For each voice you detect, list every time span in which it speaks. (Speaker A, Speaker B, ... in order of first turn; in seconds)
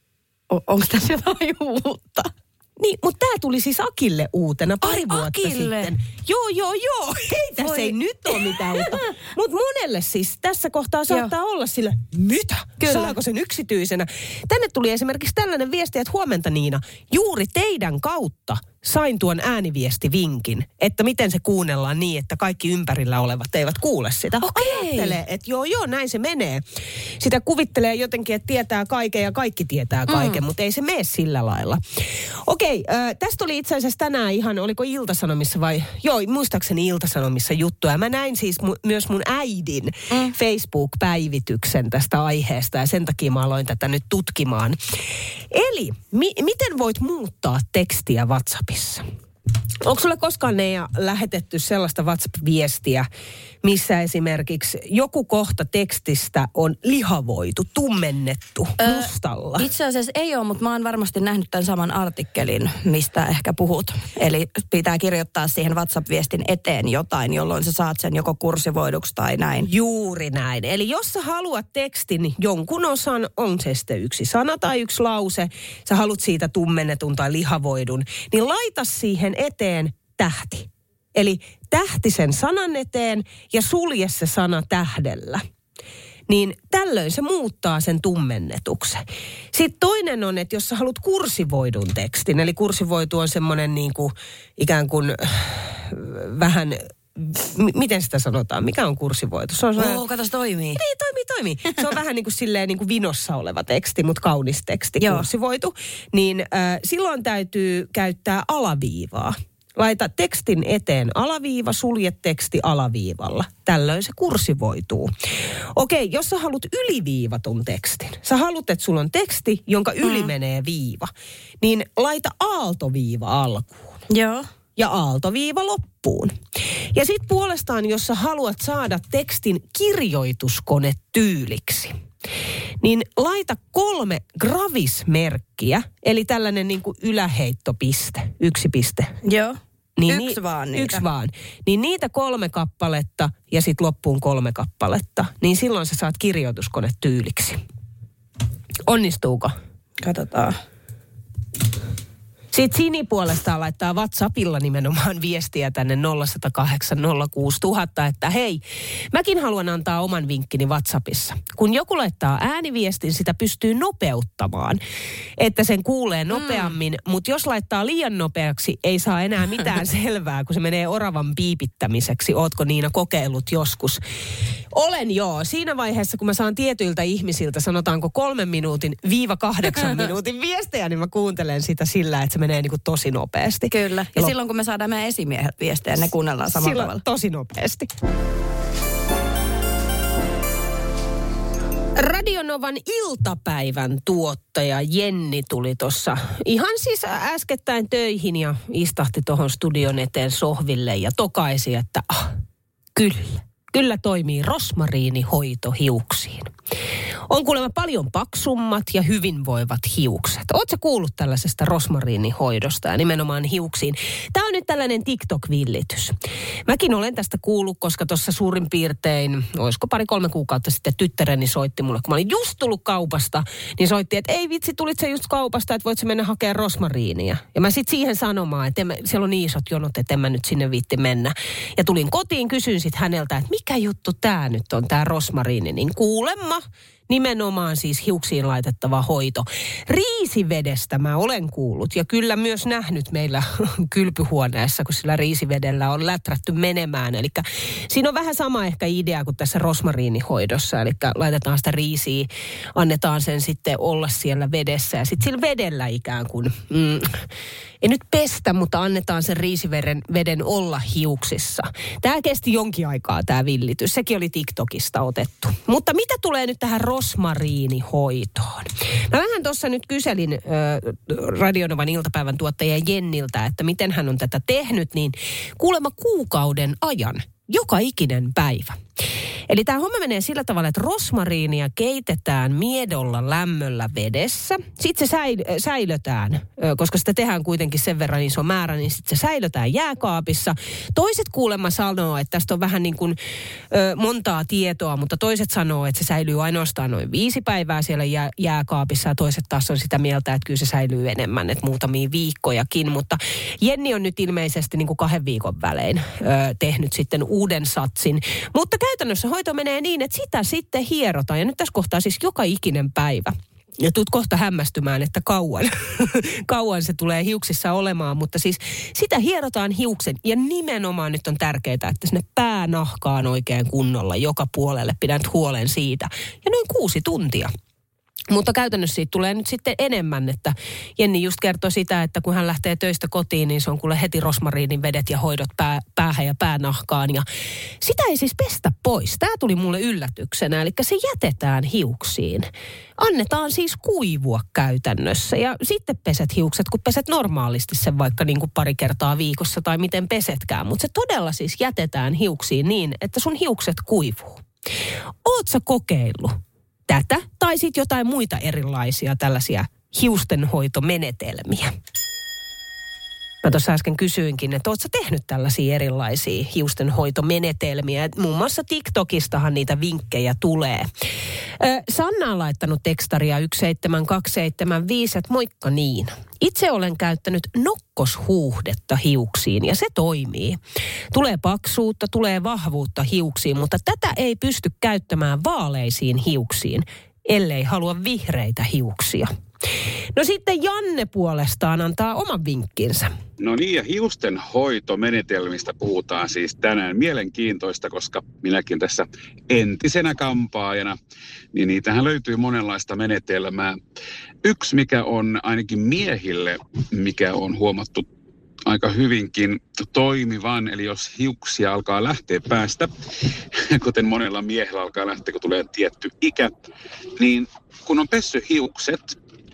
Speaker A: 0.5-2.3, 4.8-5.9, 7.6-9.1, 12.8-13.2, 24.4-25.2, 30.1-30.4, 58.8-69.7, 99.8-100.8, 105.0-105.3, 120.0-120.3, 124.1-124.5, 139.2-141.0, 150.0-150.6, 183.7-187.0
Speaker B: 2.8-26.6, 27.2-31.8, 32.5-44.8, 45.5-49.0, 49.8-53.1, 53.6-59.7, 69.6-85.4, 86.3-100.0, 100.8-115.1, 115.8-124.0, 124.8-126.3, 126.9-131.9, 132.8-139.1, 140.0-147.6, 148.9-149.6, 152.5-158.6, 159.1-164.8, 165.4-174.0, 174.7-184.3, 186.5-187.9, 192.0-202.4, 202.9-206.5, 207.3-216.2, 216.7-257.2, 257.8-278.8, 279.5-293.2, 293.7-327.5, 328.3-337.3, 337.8-354.4, 355.2-361.7, 363.4-370.9, 371.6-380.6, 381.1-389.3, 390.1-393.1
Speaker C: 393.4-401.0, 401.5-403.8, 404.4-408.1, 408.7-412.9, 413.7-416.5, 417.2-419.2